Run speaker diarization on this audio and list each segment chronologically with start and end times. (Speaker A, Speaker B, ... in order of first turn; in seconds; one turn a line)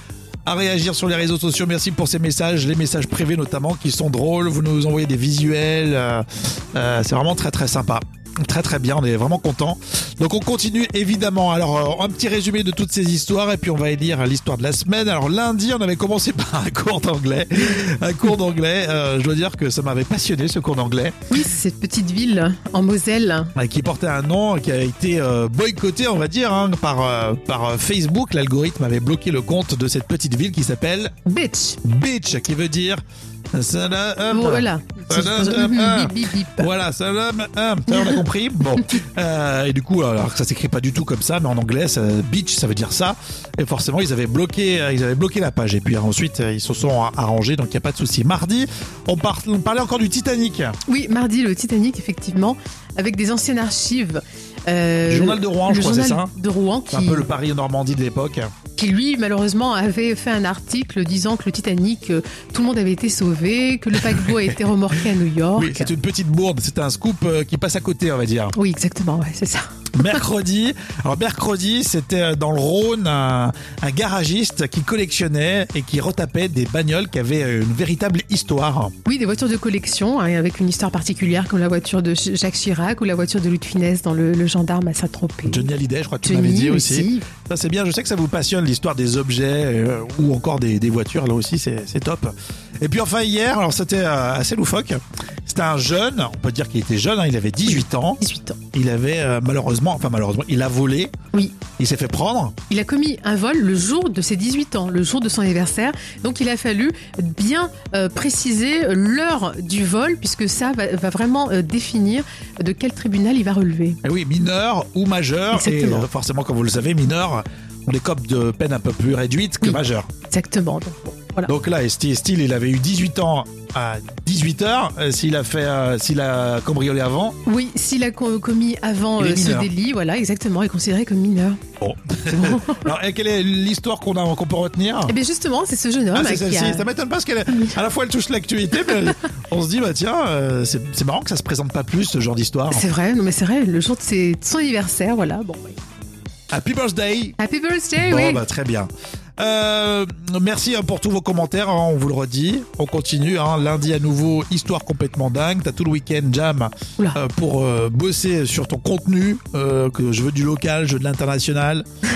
Speaker A: 0.5-21.4
Speaker B: 21.3-23.5
Speaker A: 23.5-31.1
Speaker B: 31.2-31.8
Speaker A: 31.8-33.0
Speaker A: 33.5-50.8
Speaker B: 34.3-36.7
Speaker B: 50.9-57.3
Speaker A: 55.1-56.3
Speaker A: 56.9-58.5
Speaker B: 58.8-65.9
Speaker A: 63.9-65.0
Speaker A: 65.6-68.5
Speaker B: 68.5-69.7
Speaker A: 69.9-78.9
Speaker B: 79.0-85.7
Speaker A: 85.5-98.2
Speaker B: 86.2-87.3
Speaker B: 97.8-98.6
Speaker A: 98.7-101.1
Speaker B: 101.3-101.6
Speaker A: 101.7-102.5
Speaker B: 102.7-114.0
Speaker A: 114.0-120.1
Speaker B: 115.5-116.1
Speaker B: 119.6-121.5
Speaker A: 121.5-127.3
Speaker B: 127.5-131.6
Speaker A: 129.2-129.7
Speaker A: 131.8-135.1
Speaker B: 135.1-136.9
Speaker A: 136.1-142.8
Speaker B: 142.7-145.8
Speaker A: 146.5-147.4
Speaker B: 147.4-148.4
Speaker A: 148.0-161.8